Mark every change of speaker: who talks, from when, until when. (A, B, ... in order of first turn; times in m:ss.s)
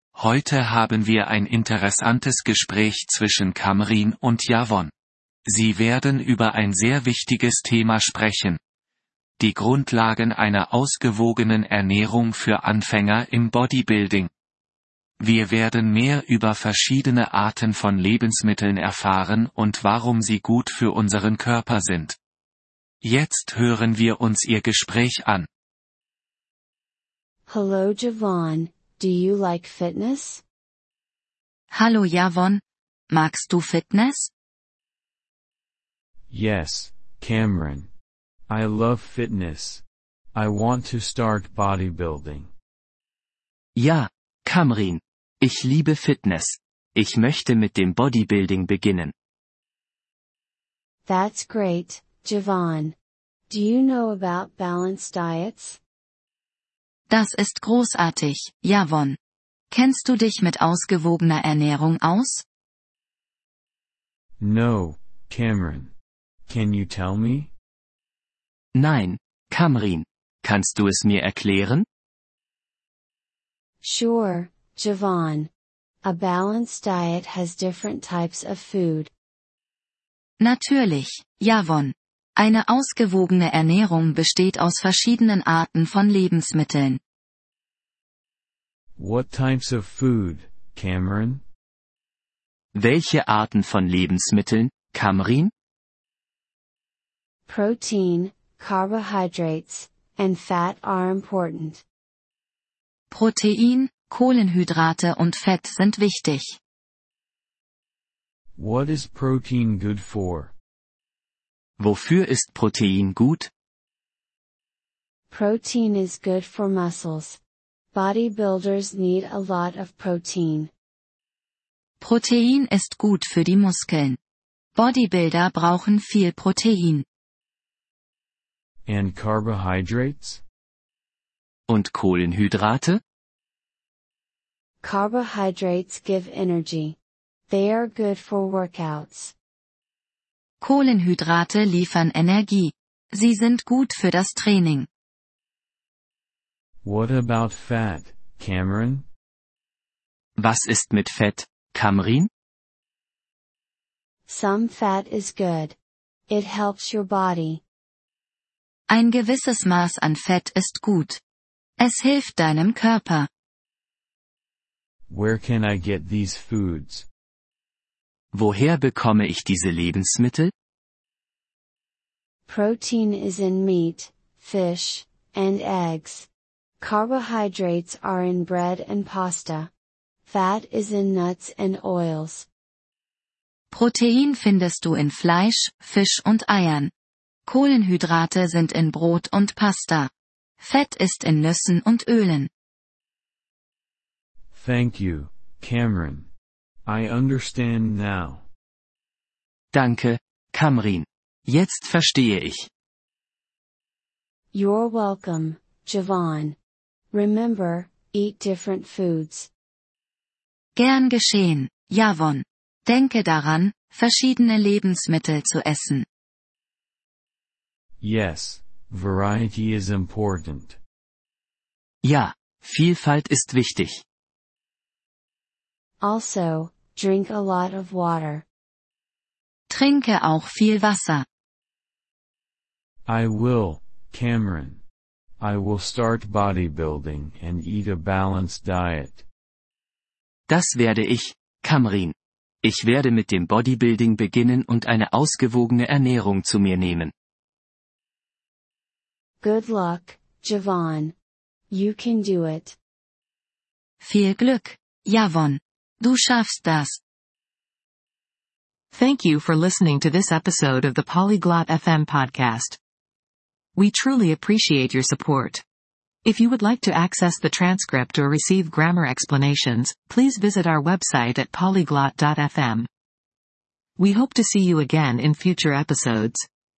0:00.2-0:04.9 A
0:05.5-0:08.6 A
0:09.4-0:14.3 A
0:15.2-0:22.2 A
0:23.0-0:25.5 A
0:27.5-0:30.4 B
0:31.7-0:34.3 C
0:36.3-0:37.9 D
0:38.5-0:42.5 D
0:43.8-0:49.1 E
0:51.0-0:53.0 B
0:53.5-0:55.8 B
0:57.1-0:59.2 C
0:59.7-1:02.4 C
1:04.4-1:05.9 D
1:06.5-1:07.5 D
1:08.7-1:11.8 E
1:13.8-1:15.5 B
1:16.0-1:19.1 B
1:20.4-1:27.0 C
1:29.0-1:31.4 D
1:32.7-1:35.5 E
1:37.5-1:41.8 B
1:43.1-1:46.5 C
1:48.6-1:50.5 D
1:51.8-1:53.5 E
1:55.3-1:57.4 B
1:57.9-2:00.7 B
2:02.0-2:04.2 C
2:04.8-2:07.0 C
2:08.8-2:10.4 D
2:11.7-2:13.0 E
2:14.8-2:17.0 B
2:17.5-2:19.3 B
2:20.6-2:24.9 C
2:26.8-2:29.1 D
2:30.4-2:32.3 E
2:34.3-2:35.8 B
2:36.3-2:37.6 B
2:38.9-2:41.2 C
2:41.8-2:43.3 C
2:45.1-2:47.1 D
2:48.3-2:50.5 E
2:52.5-2:56.3 B
2:56.8-2:59.7 B
3:00.3-3:02.5 B
3:03.7-3:06.9 C
3:07.4-3:12.5 C
3:14.5-3:16.3 D
3:16.8-3:18.5 D
3:19.7-3:22.6 E
3:24.5-3:26.6 B
3:27.1-3:29.5 B
3:30.8-3:36.0 C
3:38.0-3:40.8 D
3:42.0-3:44.0 E
3:46.0-3:48.4 B
3:49.7-3:51.2 C
3:53.1-3:54.8 D
3:55.4-3:59.2 D
4:00.5-4:07.1 E
4:09.4-4:11.1 B
4:11.7-4:12.8 B
4:14.0-4:17.0 C
4:18.9-4:22.8 F
4:23.8-4:25.6 F
4:26.2-4:32.9 F
4:34.0-4:36.4 F